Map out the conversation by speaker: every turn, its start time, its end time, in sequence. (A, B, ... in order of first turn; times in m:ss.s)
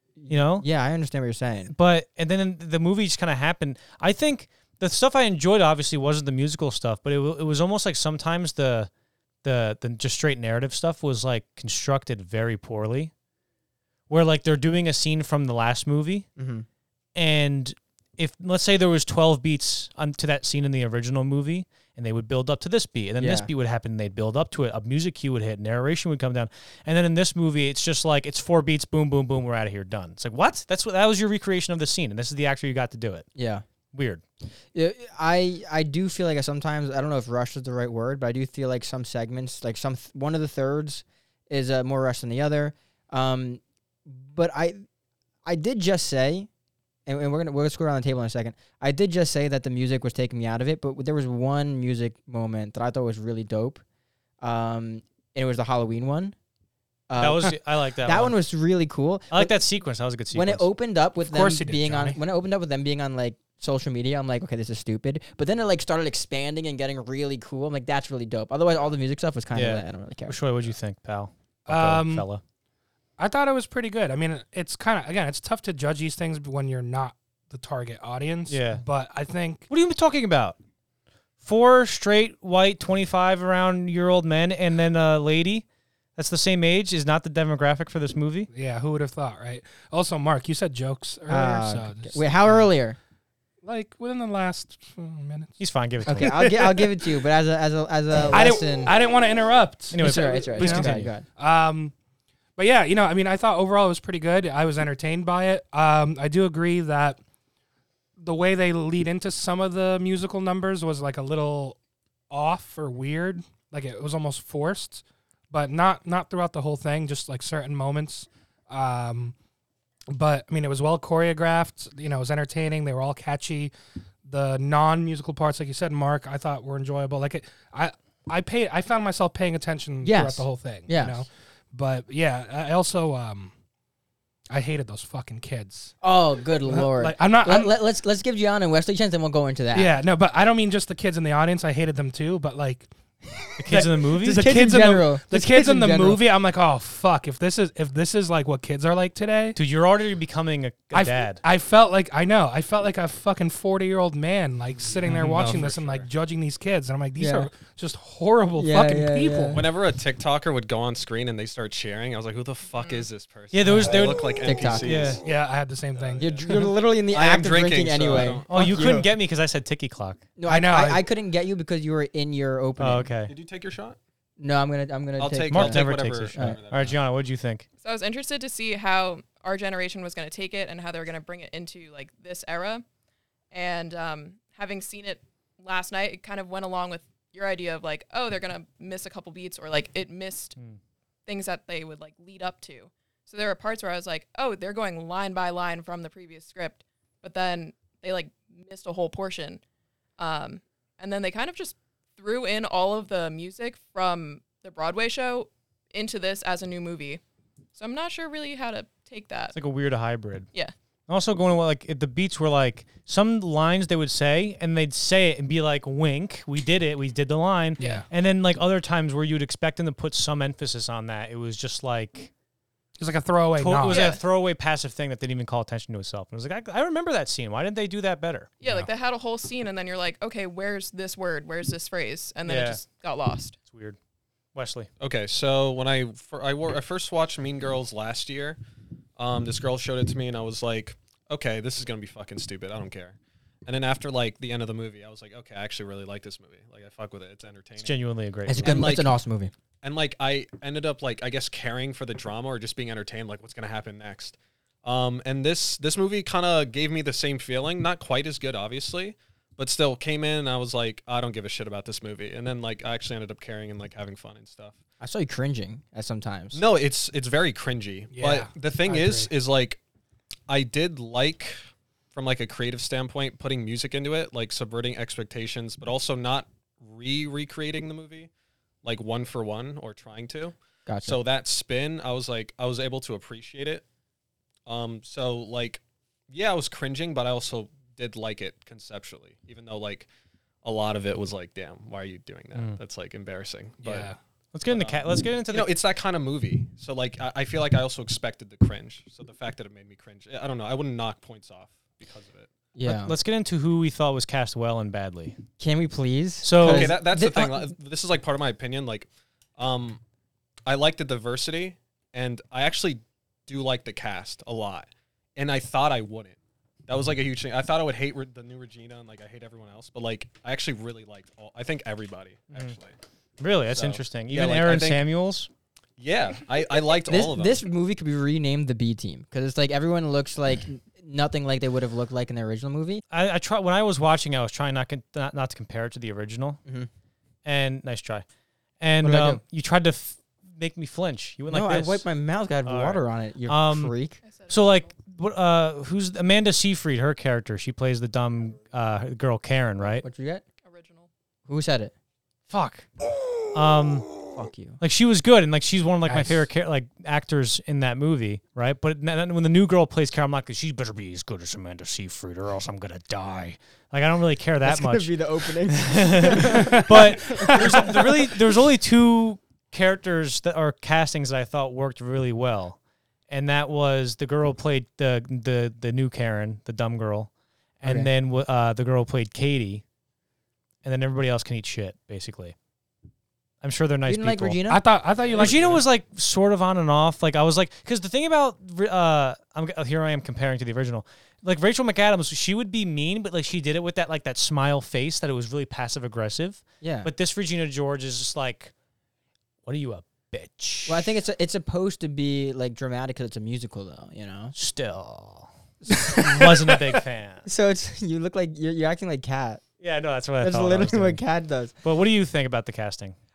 0:00.2-0:01.7 A
0:00.3-0:00.7 B
0:01.7-0:08.9 B
0:09.4-0:13.1 B
0:14.1-0:16.3 B
0:16.4-0:16.7 A
0:17.2-0:33.2 B
0:23.2-0:23.5 A
0:33.3-0:33.6 A
0:33.9-0:34.2 B
0:34.7-0:44.8 A
0:45.4-0:46.5 A
0:47.1-0:53.8 A
0:54.4-0:56.3 A
0:57.1-0:59.5 A
0:57.2-0:58.3 B
0:59.3-1:00.7 B
1:00.3-1:10.4 A
1:01.2-1:02.2 C
1:09.5-1:12.4 B
1:11.7-1:12.3 C
1:13.2-1:19.7 C
1:18.5-1:18.8 B
1:19.7-1:20.6 B
1:21.4-1:25.6 B
1:26.2-1:28.5 B
1:28.5-1:32.7 C
1:31.3-1:33.0 A
1:33.6-1:35.6 C
1:35.6-1:36.4 B
1:36.1-1:38.9 A
1:36.2-1:36.9 C
1:38.3-1:41.9 C
1:39.9-1:41.1 B
1:40.0-1:41.3 A
1:42.6-1:47.2 C
1:48.2-1:51.8 C
1:52.3-1:59.3 C
2:00.1-2:03.7 C
2:04.2-2:13.5 C
2:10.0-2:11.3 A
2:14.5-2:15.9 C
2:16.0-2:20.0 A
2:16.7-2:17.7 C
2:19.7-2:29.6 C
2:23.6-2:24.5 B
2:23.7-2:26.2 A
2:29.5-2:31.4 B
2:30.9-2:39.6 C
2:35.1-2:36.1 D
2:35.1-2:35.4 B
2:37.2-2:37.5 A
2:38.6-2:39.6 A
2:39.5-2:45.2 D
2:42.7-2:43.1 E
2:43.5-2:44.3 B
2:43.8-2:45.2 A
2:44.8-2:45.2 B
2:45.2-2:46.6 C
2:46.0-2:46.4 D
2:46.2-2:49.1 A
2:47.1-2:48.8 D
2:48.5-2:50.2 B
2:50.4-2:53.1 A
2:50.5-2:51.0 C
2:52.8-2:53.3 B
2:53.3-2:54.0 D
2:54.4-2:55.8 A
2:55.2-2:57.0 D
2:55.5-2:57.7 B
2:57.8-3:02.8 E
3:03.5-3:10.6 E
3:11.3-3:19.6 E
3:20.2-3:27.2 E
3:27.8-3:29.6 E
3:29.5-3:30.5 B
3:31.1-3:42.3 B
3:37.8-3:38.0 E
3:37.8-3:38.1 C
3:43.0-3:44.2 C
3:43.6-3:48.5 B
3:43.9-3:44.2 E
3:48.6-3:53.6 E
3:52.5-3:52.8 B
3:53.7-3:54.0 B
3:54.5-3:54.9 B
3:55.0-3:58.6 D
3:59.2-4:08.0 D
4:07.8-4:09.0 B
4:08.5-4:09.5 A
4:08.6-4:09.1 D
4:09.8-4:24.8 D
4:25.0-4:26.6 A
4:26.5-4:29.8 D
4:28.1-4:29.3 C
4:30.5-4:31.6 D
4:32.1-4:38.3 D
4:38.8-4:43.8 D
4:40.9-4:41.2 A
4:44.6-4:50.1 D
4:50.6-4:54.1 D
4:53.8-4:54.2 C
4:54.5-4:55.8 B
4:54.7-5:02.5 D
5:02.8-5:03.1 A
5:02.8-5:05.4 B
5:05.6-5:07.7 A
5:06.4-5:07.0 B
5:06.6-5:10.0 D
5:10.6-5:23.0 D
5:23.4-5:25.5 B
5:23.7-5:25.1 D
5:26.0-5:27.6 D
5:27.1-5:33.0 A
5:33.1-5:36.6 B
5:37.4-5:38.2 B
5:38.8-5:42.0 B
5:39.0-5:39.4 A
5:41.5-5:44.2 A
5:42.7-5:43.9 B
5:44.2-5:44.9 E
5:44.5-5:50.0 B
5:50.0-5:50.4 A
5:50.6-5:51.1 E
5:51.5-5:51.9 A
5:52.5-5:52.9 B
5:53.5-5:54.2 B
5:54.3-5:54.8 A
5:54.8-6:12.8 B
5:56.1-5:56.4 A
6:04.6-6:08.2 A
6:06.6-6:07.9 C
6:13.3-6:19.8 B
6:17.8-6:18.1 A
6:20.8-6:22.6 B
6:23.6-6:24.6 B
6:24.1-6:24.8 A
6:24.7-6:25.8 C
6:25.3-6:25.7 D
6:25.3-6:38.7 B
6:36.8-6:37.1 A
6:39.6-6:41.1 B
6:40.9-6:44.6 A
6:44.6-6:45.5 B
6:45.8-6:46.6 A
6:46.2-6:47.5 B
6:47.4-6:49.6 A
6:49.8-6:51.2 B
6:50.4-6:51.7 A
6:51.8-6:53.1 B